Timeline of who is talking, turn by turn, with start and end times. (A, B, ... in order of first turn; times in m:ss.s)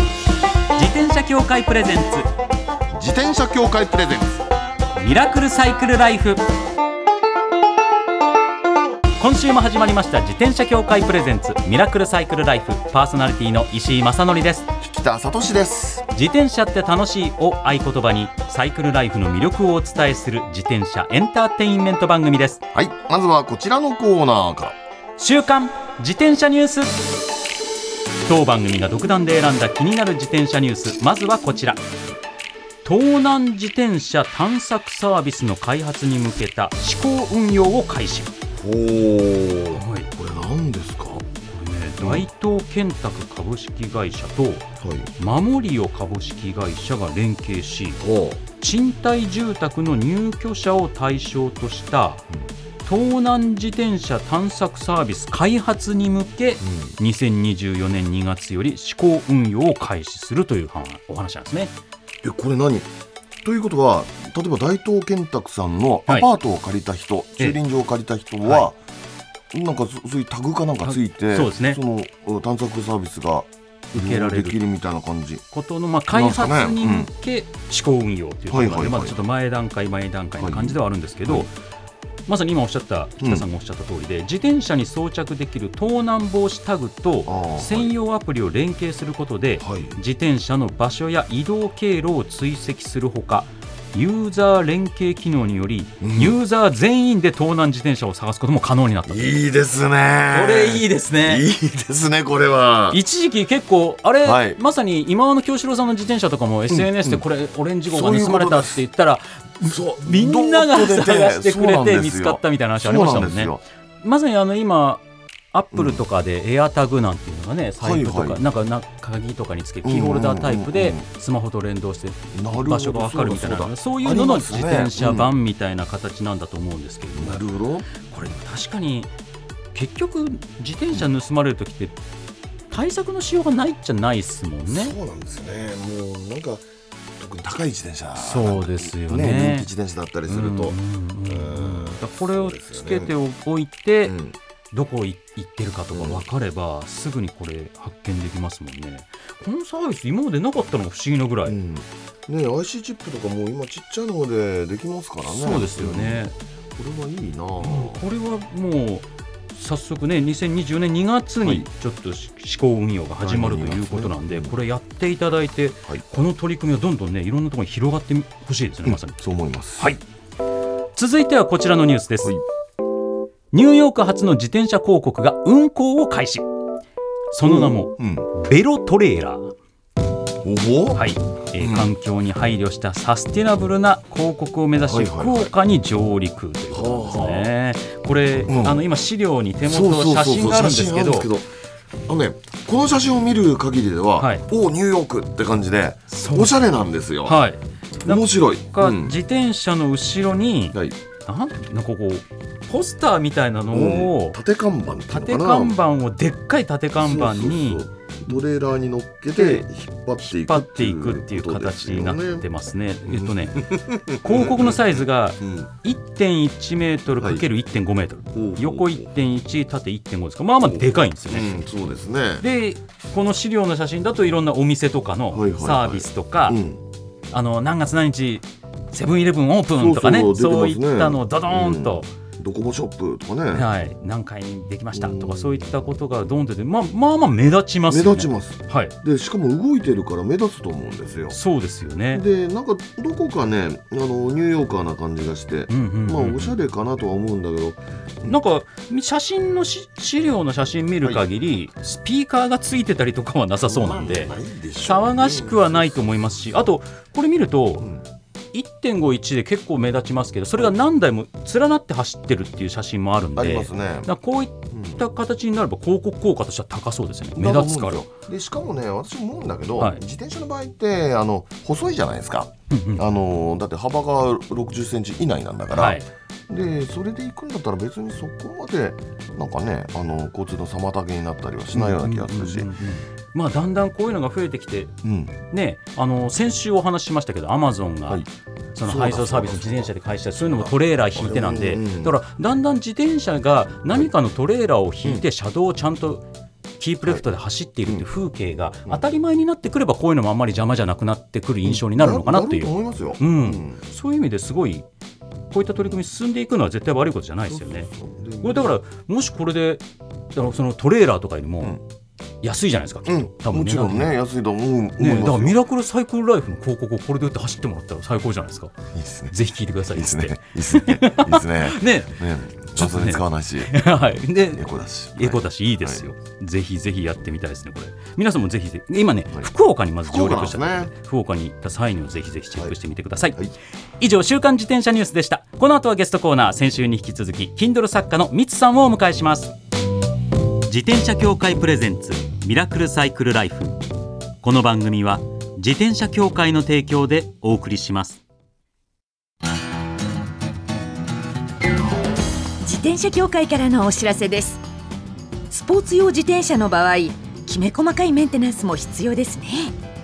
0:00.8-0:02.3 A
0:02.9-0:04.4 B
0:05.0-0:06.4 A
0:09.2-0:14.6 A
0:14.8-0:16.0 B
0:16.1-0:22.6 A
0:22.7-0:24.8 B
0:25.2-0:27.2 A
0:28.3-0:31.8 A
0:32.8-0:38.4 A
0:38.5-0:41.2 B
0:39.7-0:40.1 A
0:41.5-0:44.7 A
0:42.0-0:42.3 B
0:44.8-0:45.1 B
0:45.2-0:48.0 A
0:48.0-0:48.4 B
0:48.6-0:52.2 A
0:52.8-1:01.7 A
0:56.6-0:56.9 B
1:02.2-1:02.9 B
1:03.4-1:08.8 B
1:09.5-1:15.4 B
1:10.8-1:11.8 A
1:13.9-1:14.6 A
1:15.5-1:21.5 A
1:16.1-1:17.1 B
1:18.5-1:19.2 B
1:20.4-1:21.5 B
1:22.3-1:39.3 A
1:23.2-1:23.4 B
1:27.2-1:27.9 B
1:29.6-1:30.0 B
1:36.0-1:36.4 B
1:39.1-1:43.0 B
1:40.3-1:41.4 A
1:42.9-2:07.4 A
1:44.2-1:44.6 B
1:46.7-1:47.2 B
1:47.9-1:48.8 B
1:49.6-1:53.6 B
1:55.7-1:56.0 B
1:57.8-1:58.4 B
1:59.8-2:01.1 B
2:02.3-2:05.3 B
2:07.1-2:07.9 B
2:08.0-2:09.1 A
2:09.7-2:12.0 A
2:12.7-2:14.9 A
2:14.7-2:16.6 B
2:17.2-2:23.1 B
2:18.2-2:19.7 A
2:20.3-2:24.2 A
2:24.0-2:24.4 B
2:24.7-2:31.6 A
2:25.9-2:26.2 B
2:31.4-2:36.2 B
2:35.3-2:36.3 A
2:36.8-2:38.0 B
2:37.6-2:49.2 A
2:43.2-2:44.5 B
2:48.8-2:50.0 B
2:51.0-2:52.4 A
2:53.5-2:56.4 A
2:57.3-2:59.5 A
2:57.4-2:58.3 B
3:00.4-3:01.0 B
3:00.9-3:11.3 A
3:01.6-3:01.9 B
3:04.8-3:05.5 B
3:06.7-3:07.5 B
3:08.5-3:08.8 B
3:09.7-3:11.4 B
3:12.1-3:17.4 B
3:14.2-3:14.4 A
3:16.1-3:16.7 A
3:17.2-3:24.4 A
3:18.0-3:19.2 B
3:23.7-3:25.8 B
3:25.1-3:27.8 A
3:27.0-3:32.4 B
3:29.3-3:29.6 A
3:30.2-3:41.6 A
3:33.1-3:35.7 B
3:37.2-3:37.4 B
3:38.3-3:39.1 B
3:40.6-3:42.4 B
3:42.4-3:46.6 A
3:45.3-3:46.8 B
3:47.3-3:52.1 A
3:49.8-3:53.7 B
3:53.5-3:58.9 A
3:54.9-3:55.8 B
3:57.9-4:01.4 B
4:01.3-4:02.2 A
4:02.1-4:08.4 B
4:05.7-4:06.6 A
4:08.2-4:17.9 A
4:13.6-4:16.2 B
4:18.5-4:28.0 A
4:23.4-4:24.1 B
4:24.7-4:25.0 B
4:27.4-4:42.7 B
4:32.7-4:33.1 A
4:35.8-4:36.0 A
4:41.7-4:45.0 A
4:45.0-4:45.4 B
4:45.5-4:56.2 A
4:48.8-4:52.1 B
4:56.8-5:04.8 A
5:01.6-5:03.8 B
5:05.5-5:07.9 A
5:07.5-5:08.7 B
5:08.4-5:11.8 A
5:12.4-5:14.2 A
5:13.0-5:15.6 B
5:15.0-5:18.7 A
5:18.9-5:19.3 B
5:19.3-5:33.4 A
5:19.9-5:23.8 B
5:24.5-5:26.0 B
5:30.0-5:30.9 B
5:34.0-5:39.5 A
5:40.7-5:43.8 A
5:44.4-5:48.2 A
5:52.6-5:54.6 C
5:55.5-5:59.8 C